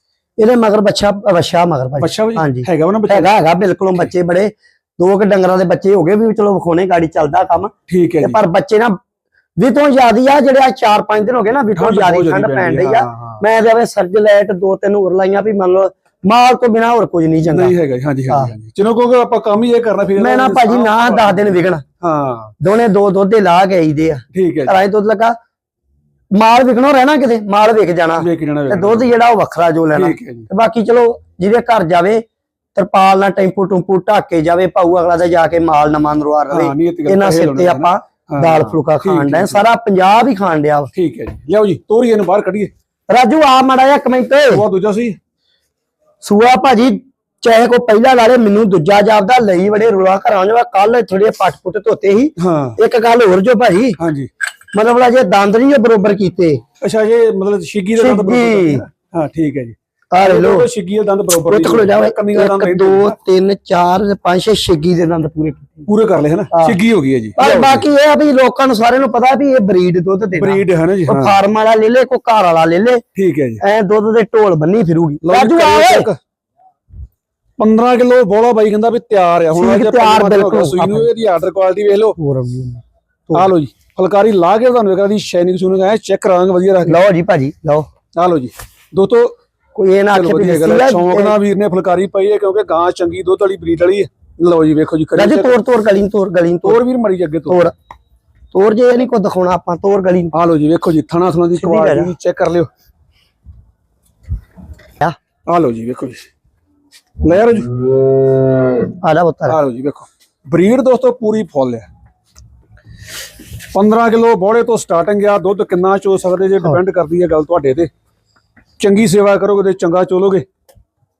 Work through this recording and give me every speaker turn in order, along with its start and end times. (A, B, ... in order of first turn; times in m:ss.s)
0:00.4-0:09.0 A
0:02.0-0:03.3 B
0:07.9-0:08.4 B
0:09.6-0:17.7 A
0:11.8-0:13.4 B
0:17.5-0:22.5 B
0:20.2-0:21.8 A
0:22.6-0:25.4 A
0:24.3-0:24.7 B
0:26.3-0:32.2 A
0:28.2-0:29.1 B
0:29.9-0:30.5 B
0:32.7-0:40.9 A
0:36.5-0:39.6 B
0:40.9-0:42.7 B
0:43.1-0:44.6 A
0:44.5-0:45.2 B
0:46.2-0:54.0 A
0:52.4-0:52.8 B
0:54.0-0:54.3 B
0:54.7-0:56.6 A
0:56.8-1:03.2 B
0:58.0-0:58.8 A
1:00.1-1:00.7 A
1:01.5-1:05.9 A
1:05.9-1:07.8 B
1:06.5-1:06.8 A
1:07.4-1:13.0 A
1:10.3-1:11.4 B
1:13.1-1:13.6 B
1:13.6-1:16.1 A
1:15.2-1:16.2 B
1:17.6-1:22.2 B
1:19.5-1:21.1 A
1:22.2-1:23.5 A
1:23.3-1:27.0 B
1:26.8-1:27.9 A
1:28.2-1:29.4 B
1:29.7-1:31.3 A
1:30.1-1:35.6 B
1:35.1-1:36.8 A
1:36.6-1:37.6 B
1:37.5-1:37.7 A
1:38.5-1:40.3 A
1:40.3-1:42.7 B
1:41.6-1:42.1 A
1:45.5-1:46.2 B
1:47.2-1:47.7 B
1:49.0-1:49.6 A
1:49.5-1:51.9 B
1:53.7-1:57.9 B
1:58.8-2:00.4 B